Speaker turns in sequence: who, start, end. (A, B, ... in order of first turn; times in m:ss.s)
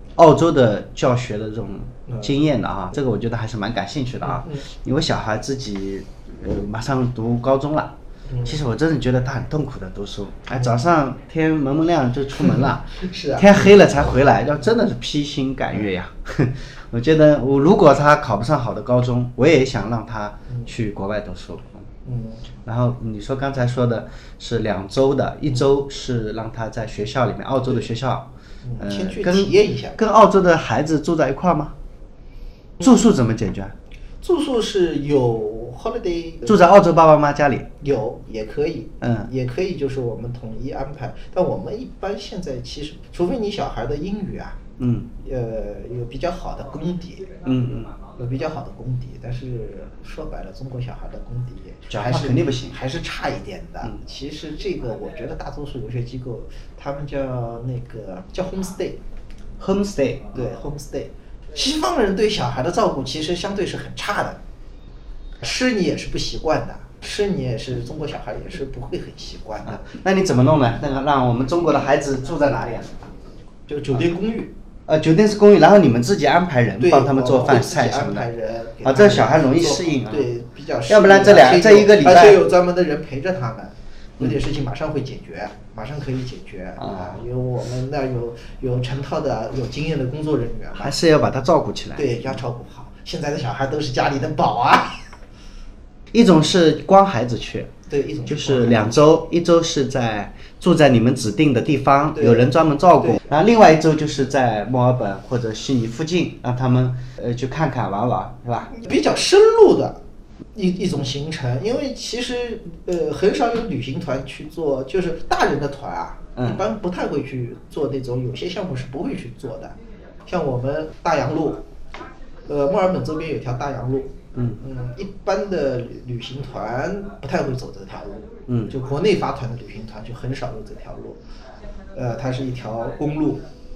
0:00.2-0:21.9 A
0:04.2-0:04.7 B
0:12.4-0:13.7 B
0:22.0-0:22.4 B
0:22.6-0:28.3 A
0:28.6-0:30.0 B
0:28.8-0:31.7 A
0:32.8-0:33.7 A
0:34.2-0:36.5 B
0:36.5-0:37.7 A
0:37.8-0:44.6 B
0:39.0-0:39.3 A
0:44.8-0:45.1 A
0:45.2-0:47.4 B
0:47.4-0:47.9 A
0:48.1-0:59.0 B
0:51.9-0:52.8 A
0:59.6-1:00.3 A
1:00.3-1:04.4 B
1:05.4-1:09.9 B
1:09.7-1:13.1 A
1:13.7-1:14.5 B
1:14.9-1:18.3 A
1:16.8-1:30.9 B
1:18.8-1:20.3 A
1:20.9-1:22.4 A
1:26.8-1:27.2 A
1:30.8-1:32.4 A
1:32.0-1:35.0 B
1:36.1-1:37.7 A
1:37.9-1:39.0 B
1:38.3-1:48.7 A
1:42.1-1:43.2 B
1:48.7-1:50.0 B
1:50.6-1:59.8 B
1:56.4-1:56.6 A
2:00.3-2:01.7 B
2:02.5-2:04.1 B
2:04.6-2:11.2 B
2:12.0-2:13.4 B